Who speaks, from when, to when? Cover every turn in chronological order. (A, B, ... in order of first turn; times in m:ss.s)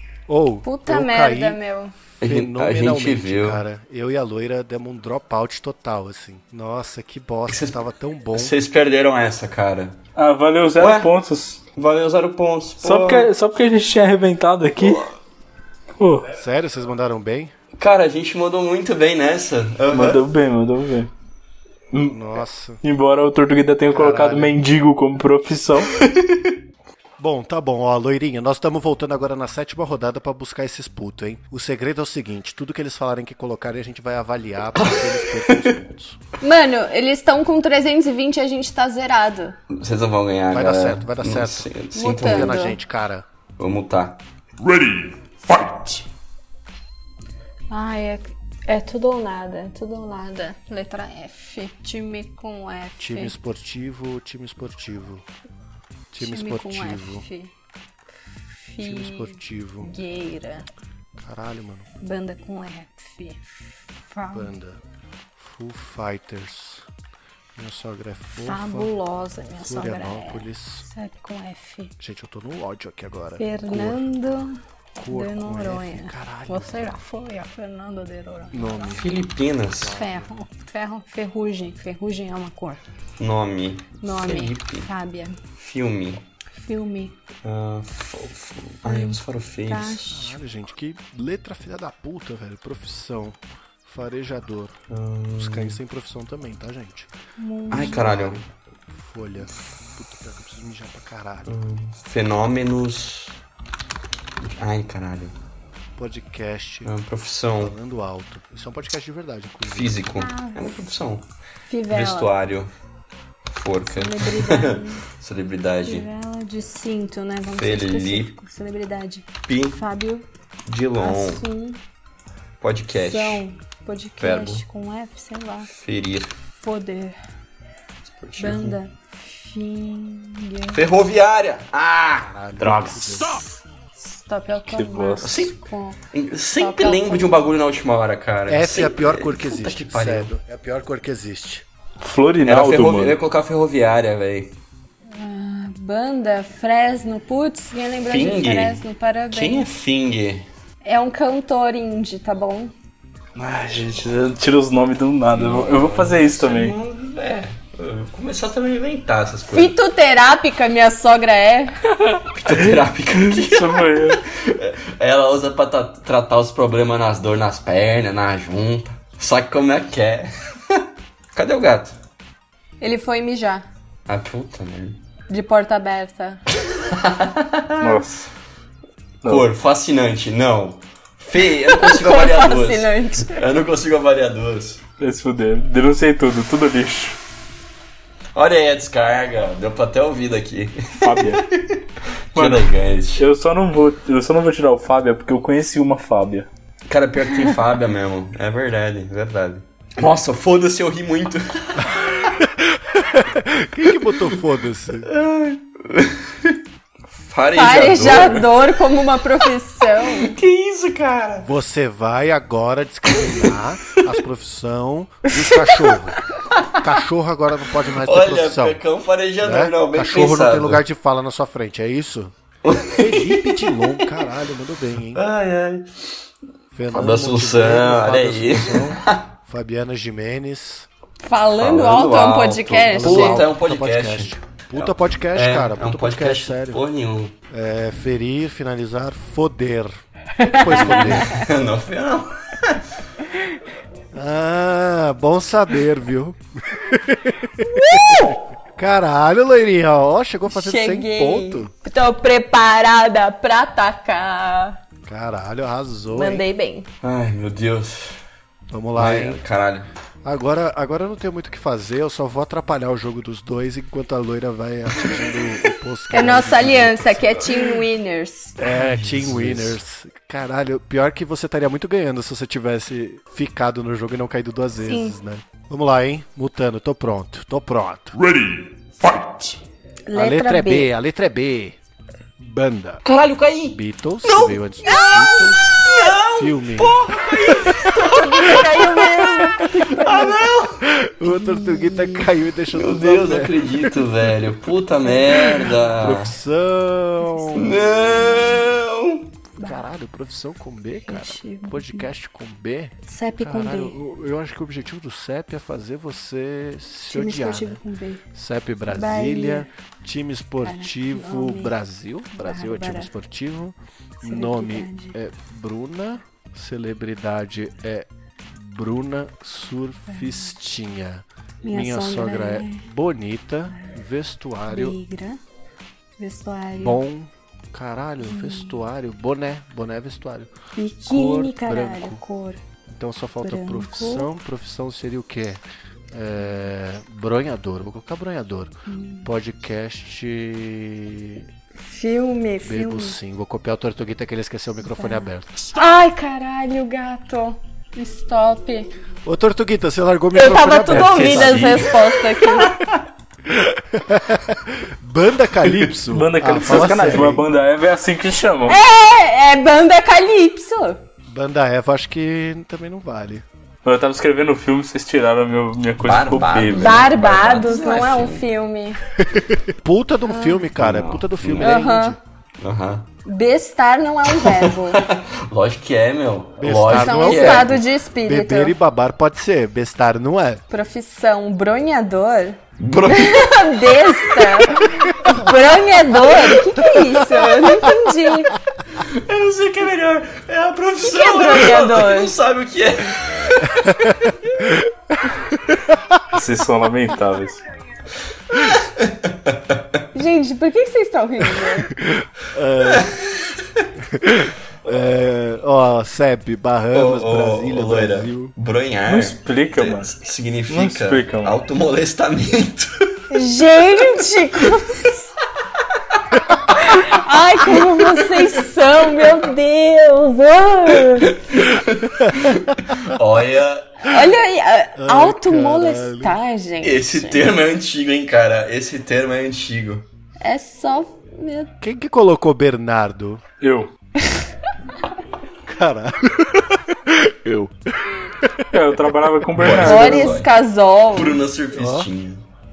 0:00.3-0:01.6 A
0:00.6-0:02.0 B
0:02.2-0:08.5 A
0:02.2-0:03.6 C
0:07.5-0:07.8 C
0:08.3-0:10.0 C
0:10.2-0:11.6 D
0:10.8-0:11.1 C
0:11.8-0:13.3 C
0:12.8-0:15.0 D
0:14.8-0:15.0 C
0:16.0-0:16.3 D
0:16.4-0:17.5 A
0:17.8-0:20.2 C
0:19.9-0:21.1 D
0:21.9-0:22.2 D
0:22.0-0:22.8 A
0:22.8-0:25.9 D
0:23.9-0:24.6 A
0:26.1-0:26.5 C
0:27.2-0:36.2 A
0:34.8-0:35.8 C
0:36.4-0:39.6 B
0:39.7-0:42.7 C
0:40.5-0:43.2 A
0:41.9-0:42.8 B
0:43.6-0:44.2 C
0:45.5-0:45.8 B
0:47.7-0:53.4 B
0:53.0-0:55.2 A
0:56.1-0:57.3 A
0:56.2-0:57.5 B
0:58.6-1:00.7 B
0:58.8-1:00.0 A
1:01.2-1:01.9 A
1:02.0-1:04.5 B
1:04.3-1:04.8 A
1:05.4-1:06.9 A
1:07.6-1:08.9 A
1:08.5-1:11.9 B
1:09.6-1:10.9 A
1:12.0-1:14.0 A
1:13.4-1:19.0 B
1:15.0-1:17.0 A
1:18.5-1:19.2 A
1:18.9-1:20.0 C
1:19.8-1:20.3 A
1:19.9-1:22.8 B
1:23.2-1:24.9 C
1:24.0-1:25.4 B
1:25.5-1:26.2 C
1:26.6-1:27.2 B
1:27.4-1:30.0 C
1:28.8-1:30.4 B
1:30.1-1:34.8 A
1:34.9-1:35.8 C
1:35.4-1:37.1 A
1:37.4-1:38.3 B
1:37.7-1:38.4 C
1:37.7-1:41.6 A
1:41.5-1:43.4 C
1:44.4-1:45.4 C
1:46.0-1:46.9 A
1:46.8-1:47.8 C
1:47.6-1:50.1 A
1:49.7-1:51.3 C
1:50.0-1:50.9 B
1:51.7-1:52.3 B
1:51.9-1:52.7 C
1:53.5-1:56.1 C
1:53.9-1:55.0 B
1:55.8-2:00.3 B
1:57.5-1:58.4 C
1:59.5-1:59.8 C
2:00.7-2:01.4 C
2:01.0-2:01.8 B
2:02.6-2:03.4 C
2:02.9-2:05.7 B
2:04.2-2:04.6 C
2:05.7-2:06.3 C
2:06.5-2:07.2 B
2:08.1-2:08.8 C
2:08.4-2:10.8 B
2:10.7-2:13.4 C
2:12.3-2:13.4 A
2:14.0-2:16.0 B
2:14.7-2:15.5 D
2:15.2-2:15.6 C
2:16.1-2:20.3 C
2:16.5-2:17.4 B
2:18.5-2:21.6 A
2:22.0-2:23.2 D
2:22.4-2:24.5 C
2:25.1-2:29.7 B
2:28.1-2:30.5 C
2:30.8-2:32.7 B
2:33.4-2:36.7 D
2:35.3-2:39.7 C
2:39.5-2:41.7 B
2:42.0-2:44.2 D
2:42.3-2:52.0 C
2:52.8-2:53.6 B
2:54.1-2:55.0 C
2:55.3-2:56.4 B
2:56.7-2:58.0 C
2:57.8-2:58.3 D
2:59.2-2:59.5 D
2:59.2-3:04.8 C
3:01.6-3:03.5 B
3:05.0-3:07.2 D
3:08.4-3:13.3 C
3:11.0-3:11.4 D
3:12.4-3:16.5 D
3:16.9-3:22.4 C
3:21.8-3:25.1 A
3:25.0-3:28.6 C
3:27.5-3:30.3 B
3:28.1-3:28.4 D
3:30.1-3:31.5 C
3:31.4-3:36.2 A
3:35.3-3:36.0 B
3:36.8-3:38.8 A
3:38.0-3:40.8 C
3:39.4-3:45.2 A
3:42.6-3:44.1 C
3:45.1-3:46.2 C
3:46.7-3:50.9 A
3:46.9-3:49.3 C
3:51.2-3:53.4 B
3:51.6-3:57.3 C
3:52.8-3:56.8 A
3:57.5-4:01.5 A
4:00.4-4:01.5 B
4:00.7-4:02.8 C
4:04.1-4:11.7 A
4:07.6-4:08.4 B
4:10.5-4:14.8 B
4:15.0-4:16.4 A
4:16.1-4:16.9 B
4:17.0-4:18.2 C
4:18.7-4:19.4 A
4:18.9-4:19.9 C
4:20.2-4:27.6 A
4:26.1-4:28.6 B
4:28.6-4:38.2 A
4:28.7-4:29.8 C
4:34.8-4:35.2 B
4:40.1-4:40.9 B
4:40.1-4:41.8 A
4:42.4-4:43.0 A
4:43.0-4:50.9 C
4:43.7-4:47.0 A
4:47.5-4:50.4 B
4:49.4-4:49.7 A
4:50.8-4:53.9 A
4:51.2-4:52.3 B
4:52.7-4:56.3 C
4:55.9-4:58.7 A
4:57.3-4:57.8 B
4:57.6-4:59.3 C
4:59.6-5:07.8 A
4:59.6-4:59.8 B
5:01.1-5:02.1 B
5:03.1-5:04.0 B
5:07.1-5:08.2 B
5:08.3-5:25.0 A
5:08.9-5:09.7 B
5:10.6-5:11.8 B
5:12.3-5:13.1 B
5:14.2-5:15.2 B
5:20.1-5:20.6 B
5:21.6-5:22.8 B
5:24.7-5:25.4 B
5:26.2-5:27.0 B
5:26.8-5:30.5 A
5:28.3-5:28.8 B
5:30.8-5:32.6 B
5:31.0-5:32.2 A
5:32.9-5:41.5 A
5:33.4-5:34.3 B
5:38.9-5:39.3 B
5:41.8-5:43.2 B
5:42.6-5:45.7 A
5:44.9-5:48.9 B
5:49.2-5:52.0 A
5:50.3-5:52.8 B
5:50.9-5:51.4 D
5:50.9-5:52.0 C
5:52.6-5:53.0 C
5:53.5-5:57.5 A
5:56.1-5:58.8 D
5:58.7-6:01.0 B
6:01.3-6:03.4 A
6:03.8-6:07.1 D
6:06.0-6:08.5 C
6:06.7-6:09.0 B
6:09.2-6:12.2 A
6:10.2-6:10.7 B
6:10.8-6:11.8 C
6:11.6-6:12.2 B
6:12.6-6:13.1 C
6:13.3-6:15.0 B
6:14.4-6:17.8 C
6:16.6-6:20.6 A
6:16.9-6:18.7 B
6:20.7-6:28.6 B
6:22.8-6:23.5 C
6:29.0-6:34.5 C
6:31.0-6:32.4 B
6:33.8-6:36.0 A
6:36.3-6:37.6 D
6:38.7-6:40.0 C
6:40.1-6:41.9 B
6:41.6-6:43.1 A
6:42.8-6:43.9 C
6:44.1-6:48.5 A
6:46.9-6:53.2 C
6:49.1-6:50.1 D
6:50.7-6:51.6 D
6:53.3-6:55.3 B
6:56.7-7:01.5 B
7:01.2-7:04.2 C
7:04.0-7:07.5 B
7:05.0-7:06.4 A
7:06.8-7:10.0 C
7:10.4-7:11.7 B
7:11.8-7:13.4 A
7:13.6-7:13.9 D
7:15.7-7:19.7 A
7:18.7-7:20.4 D
7:19.6-7:20.5 C
7:19.8-7:21.4 B
7:21.1-7:22.4 C
7:21.7-7:22.1 A